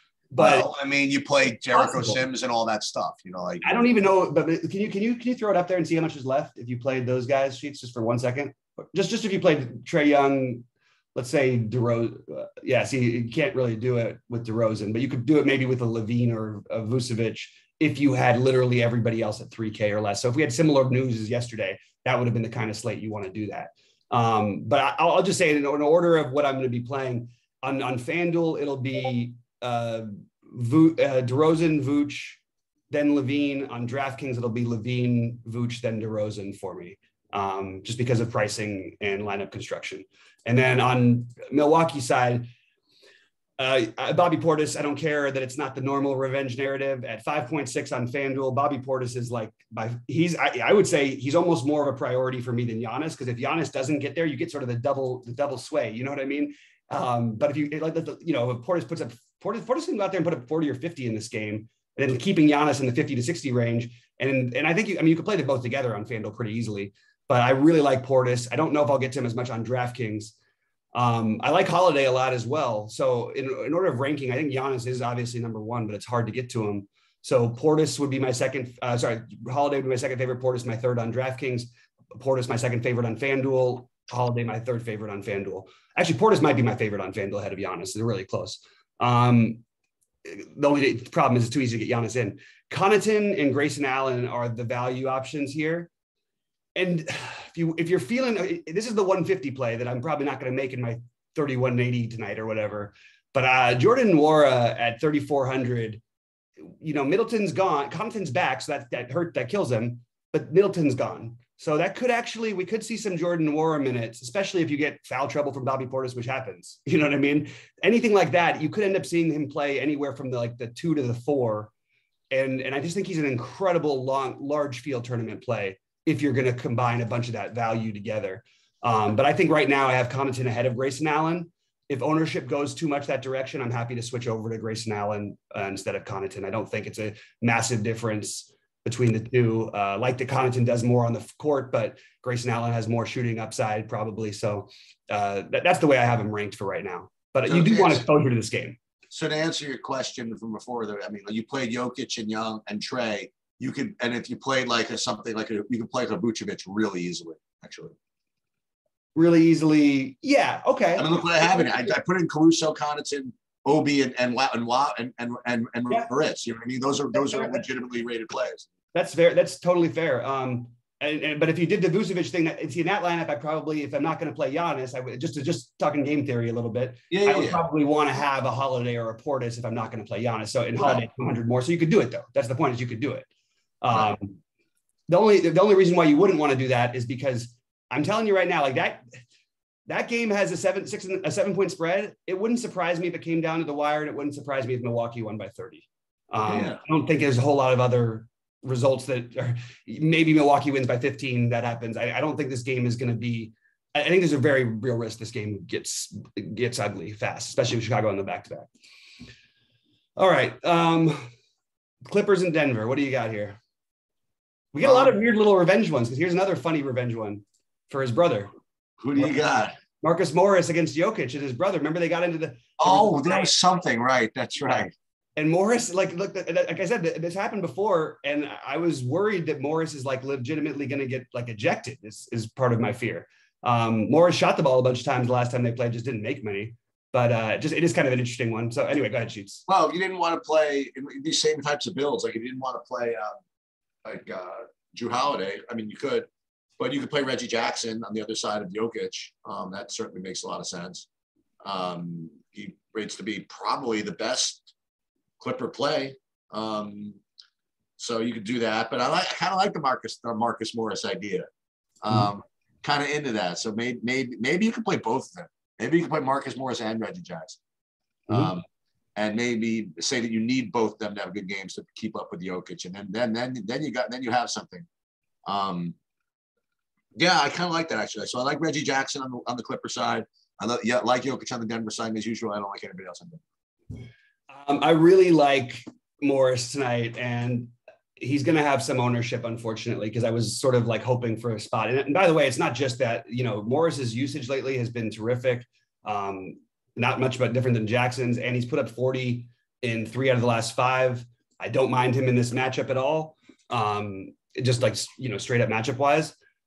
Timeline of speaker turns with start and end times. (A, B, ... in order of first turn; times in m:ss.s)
0:00.3-0:00.7 A
0:00.4-0:03.9 B
0:01.7-0:02.2 A
0:03.6-0:42.5 A
0:43.6-1:10.3 A
1:10.9-1:29.6 A
1:30.2-1:35.9 A
1:36.7-1:46.0 A
1:46.6-2:01.7 A
2:02.3-2:28.8 A
2:27.5-2:28.0 B
2:29.1-2:37.9 B
2:39.1-2:41.7 A
2:41.0-2:48.7 B
2:47.1-2:47.6 A
2:48.9-3:03.3 A
2:57.1-2:57.6 B
3:03.8-3:04.4 A
3:05.1-3:09.0 A
3:09.9-3:28.7 A
3:16.4-3:16.8 B
3:30.2-3:31.2 A
3:32.1-3:33.6 A
3:34.7-3:38.5 A
3:34.8-3:35.2 B
3:39.0-3:39.7 B
3:40.0-3:43.5 A
3:42.8-3:44.9 B
3:45.4-3:59.6 A
3:59.7-4:03.4 B
4:04.0-4:06.3 B
4:06.8-4:11.1 B
4:11.6-4:14.7 B
4:15.4-4:17.2 B
4:18.0-4:21.5 B
4:22.0-4:27.6 B
4:28.3-4:28.6 B
4:29.2-4:34.9 B
4:35.4-4:35.9 B
4:37.2-4:43.4 B
4:44.5-5:06.4 A